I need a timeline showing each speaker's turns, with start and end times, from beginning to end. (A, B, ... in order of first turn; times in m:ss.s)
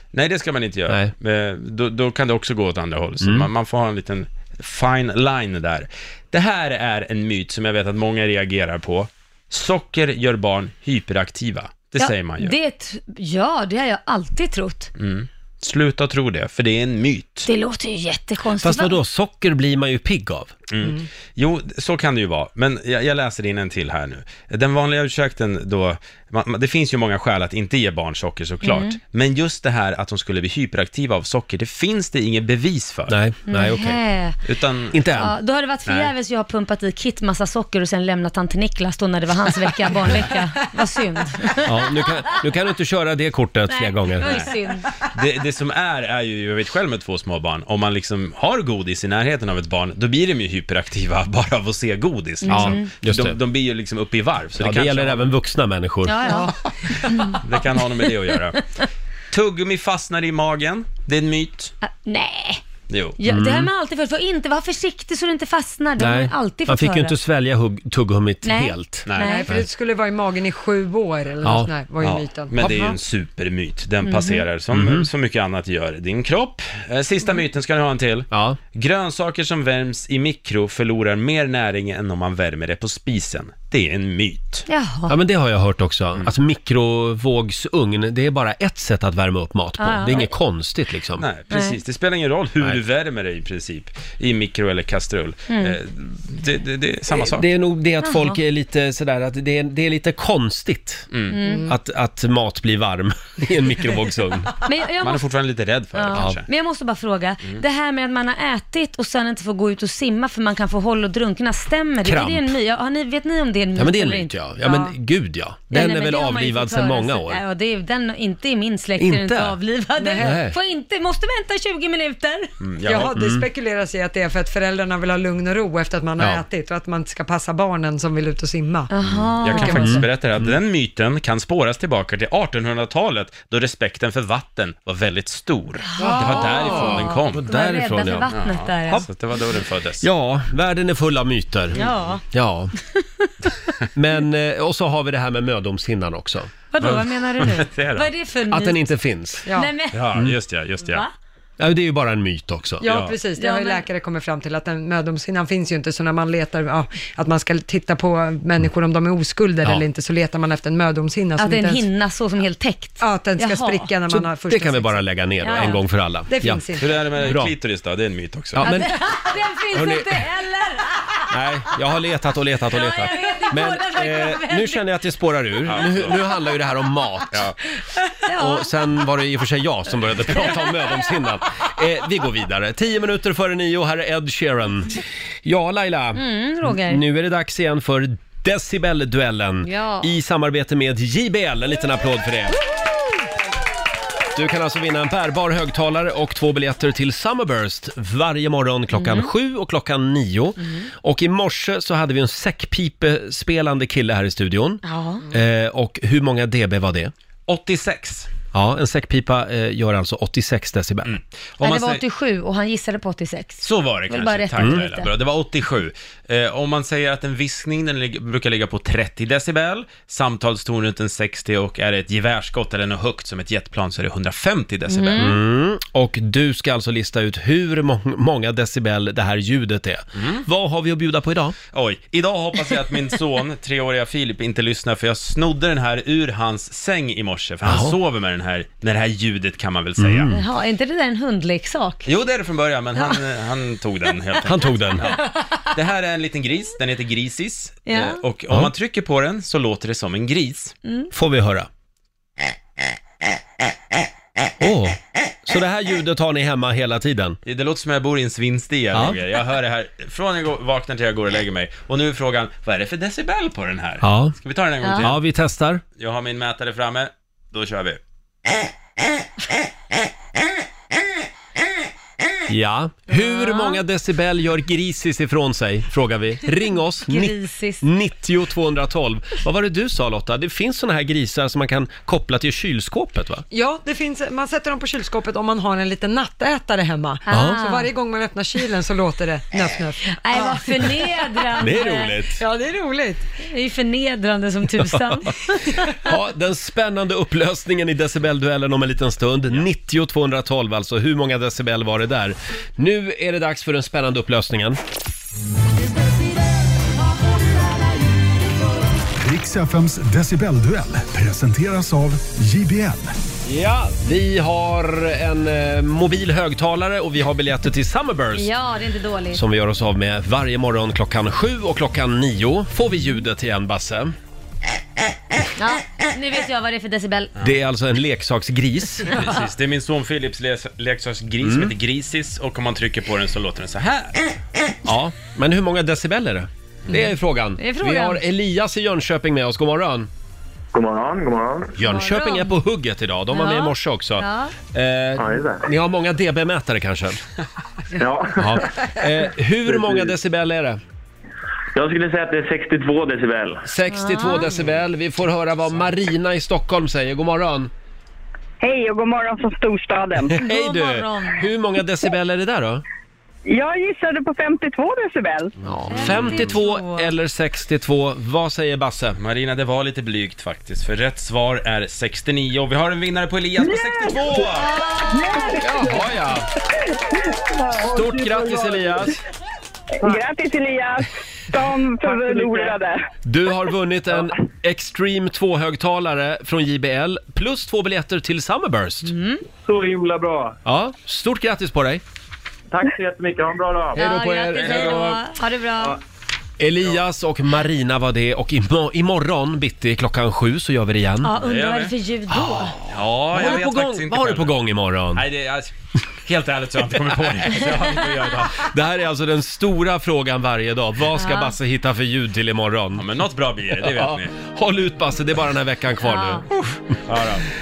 0:00.1-0:12.6 A
0:03.2-0:03.5 B
0:12.0-0:14.9 C
0:15.0-0:17.5 A
0:17.5-0:19.0 C
0:18.6-0:20.5 B
0:20.7-0:33.1 A
0:28.6-0:29.0 C
0:33.1-0:34.0 B
0:33.5-0:34.4 C
0:34.4-0:34.9 A
0:34.9-0:35.3 B
0:35.1-0:41.9 C
0:35.8-0:36.1 A
0:41.6-0:44.5 B
0:43.7-0:44.9 C
0:45.0-0:55.3 A
0:52.4-0:52.9 C
0:52.5-0:53.4 B
0:54.6-0:56.2 B
0:56.0-0:57.4 C
0:56.2-0:56.5 D
0:57.2-0:58.6 A
0:59.3-1:01.7 A
1:01.8-1:02.6 C
1:02.9-1:03.2 A
1:03.2-1:07.1 C
1:03.3-1:03.7 B
1:06.0-1:09.6 B
1:08.4-1:09.5 C
1:09.0-1:09.3 A
1:09.2-1:12.6 D
1:11.4-1:11.7 B
1:12.0-1:24.6 A
1:14.0-1:14.4 C
1:14.7-1:15.1 B
1:18.3-1:18.6 B
1:24.7-1:25.1 C
1:25.1-1:31.2 B
1:29.8-1:30.3 C
1:31.2-1:37.5 A
1:31.5-1:31.8 C
1:35.5-1:35.8 C
1:37.2-1:41.1 B
1:38.0-1:38.4 C
1:41.1-1:41.4 A
1:41.3-1:41.7 C
1:41.3-1:41.7 D
1:41.7-1:44.5 B
1:44.6-1:45.2 C
1:45.0-1:46.4 A
1:45.9-1:54.9 C
1:52.0-1:52.5 B
1:53.8-1:57.4 B
1:55.7-2:02.5 C
1:59.0-1:59.6 B
2:00.0-2:00.4 D
2:00.2-2:00.5 B
2:02.6-2:03.1 A
2:02.8-2:08.9 D
2:03.1-2:03.4 B
2:06.2-2:06.4 B
2:08.9-2:10.0 C
2:09.1-2:17.4 A
2:09.5-2:10.0 D
2:09.8-2:10.5 B
2:15.9-2:19.1 C
2:16.0-2:18.3 B
2:18.2-2:20.0 A
2:20.0-2:21.8 B
2:21.7-2:22.2 C
2:22.3-2:22.7 B
2:22.8-2:23.7 C
2:23.9-2:26.5 B
2:26.7-2:28.9 C
2:26.8-2:28.1 A
2:28.5-2:29.5 B
2:29.4-2:29.7 D
2:29.5-2:30.2 C
2:29.9-2:31.0 A
2:30.8-2:31.1 C
2:31.6-2:32.8 B
2:32.8-2:41.9 D
2:32.8-2:33.2 A
2:33.4-2:33.8 C
2:41.4-2:43.9 C
2:43.0-2:45.0 D
2:44.1-2:46.6 B
2:45.4-2:45.8 C
2:46.3-2:47.1 D
2:46.8-2:48.8 A
2:47.2-2:47.5 B
2:48.5-2:48.9 B
2:48.6-2:51.3 C
2:49.7-2:50.2 B
2:51.3-2:57.4 B
2:52.7-2:54.8 C
2:55.7-2:56.2 A
2:58.0-2:58.7 C
2:58.3-3:12.6 B
3:00.3-3:01.1 C
3:06.1-3:07.0 C
3:09.6-3:10.1 C
3:14.3-3:27.1 B
3:18.9-3:19.3 C
3:24.8-3:25.2 C
3:27.5-3:28.3 A
3:28.5-3:31.1 B
3:31.0-3:32.0 A
3:31.6-3:35.1 C
3:33.6-3:45.2 A
3:34.6-3:34.8 B
3:44.9-3:45.4 C
3:45.2-3:51.6 B
3:50.2-3:50.4 A
3:51.7-4:00.3 A
3:57.6-3:58.0 B
4:00.0-4:00.4 B
4:00.3-4:02.1 C
4:02.0-4:10.7 A
4:02.9-4:03.2 C
4:04.4-4:05.1 B
4:07.9-4:08.2 C
4:10.8-4:11.1 C
4:11.1-4:11.7 B
4:14.6-4:17.4 B
4:17.4-4:25.2 A
4:24.0-4:24.4 B
4:24.8-4:25.1 C
4:25.0-4:25.8 B
4:26.0-4:28.0 A
4:32.5-4:43.4 B
4:33.1-4:33.8 C
4:37.0-4:37.8 C
4:43.5-4:51.8 D
4:47.3-4:47.9 C
4:47.3-4:47.6 B
4:50.2-4:52.2 C
4:51.6-4:52.4 B
4:52.4-4:53.2 D
4:53.4-4:55.9 C
4:56.0-5:04.8 B
5:09.2-5:13.2 E
5:13.4-5:18.5 B
5:18.3-5:19.4 C
5:19.3-5:24.1 B
5:25.6-5:27.3 C
5:27.4-5:29.2 B
5:29.1-5:29.4 C
5:29.1-5:34.2 A
5:31.4-5:31.7 B
5:34.8-5:40.1 B
5:37.6-5:38.2 C
5:40.7-5:41.7 F
5:41.8-5:47.2 B
5:41.8-5:42.5 C
5:43.3-5:44.5 C
5:45.2-5:45.6 F
5:48.0-5:48.9 F
5:48.4-5:50.8 B
5:49.7-5:50.0 F
5:51.7-5:53.6 F
5:53.6-5:57.7 B
5:53.9-5:54.5 C
5:58.6-6:00.4 G
6:00.3-6:02.8 B
6:00.4-6:01.5 C
6:03.5-6:05.5 G
6:05.6-6:09.2 B
6:05.9-6:07.1 C
6:09.2-6:14.8 A
6:13.6-6:16.0 G
6:15.0-6:16.2 F
6:15.6-6:16.5 B
6:17.7-6:19.1 F
6:17.9-6:19.2 B
6:20.0-6:23.0 G
6:22.0-6:22.8 F
6:23.2-6:29.1 B
6:29.0-6:29.4 C
6:29.6-6:30.6 F
6:30.6-6:32.0 B
6:32.7-6:34.0 F
6:33.9-6:35.2 B
6:34.0-6:36.0 C
6:36.6-6:41.3 B
6:41.2-6:42.8 C
6:41.4-6:41.9 A
6:42.3-6:45.2 B
6:42.9-6:44.5 A
6:45.1-6:48.7 A
6:47.2-6:47.6 B
6:48.6-6:53.0 B
6:51.1-6:51.5 C
6:53.0-6:54.4 A
6:53.7-6:56.9 B
6:56.0-6:56.4 C
6:57.0-6:57.5 A